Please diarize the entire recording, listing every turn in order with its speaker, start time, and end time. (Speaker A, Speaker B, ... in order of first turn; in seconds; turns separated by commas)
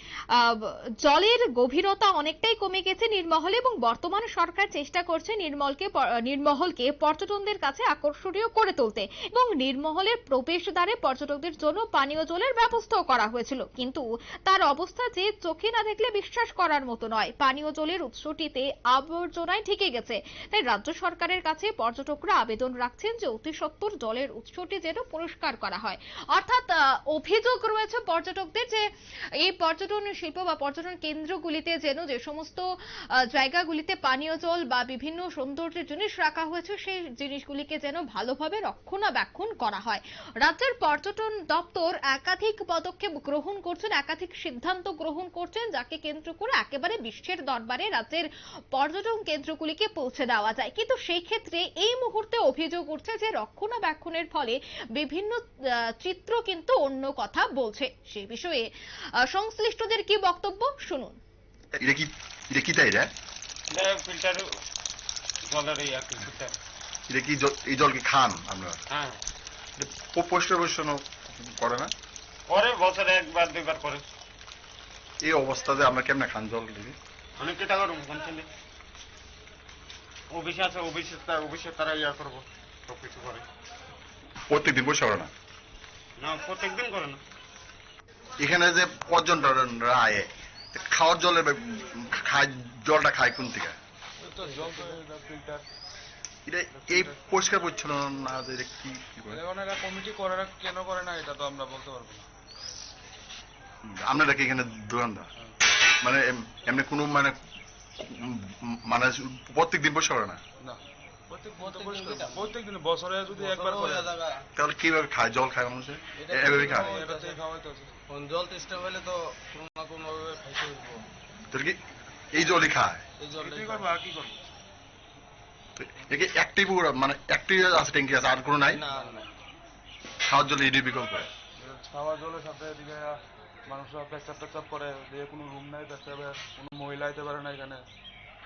Speaker A: 0.3-61.2, Speaker B: 61.8-63.1, Speaker C: 63.7-64.5, Speaker C: 65.5-66.6, Speaker B: 67.1-68.8, Speaker C: 68.9-69.2, Speaker B: 69.8-71.9, Speaker C: 72.5-74.0, Speaker B: 75.2-77.0, Speaker C: 77.4-78.5, Speaker C: 80.3-83.5, Speaker B: 84.5-85.3, Speaker C: 86.2-87.2, Speaker B: 88.4-93.8, Speaker D: 94.2-95.7, Speaker B: 96.5-99.4, Speaker D: 96.7-97.2, Speaker D: 99.3-102.3, Speaker B: 103.8-105.3, Speaker B: 105.9-107.4, Speaker B: 108.0-110.4, Speaker D: 110.6-114.2, Speaker E: 111.6-112.5, Speaker E: 113.3-114.5, Speaker B: 114.6-117.0, Speaker E: 116.2-117.4, Speaker D: 116.7-118.0, Speaker E: 118.1-121.1, Speaker B: 121.5-121.8, Speaker B: 122.3-123.0, Speaker E: 123.2-123.9, Speaker D: 123.4-124.4, Speaker B: 125.8-128.8, Speaker E: 128.7-129.3, Speaker B: 130.3-131.3, Speaker D: 131.6-137.8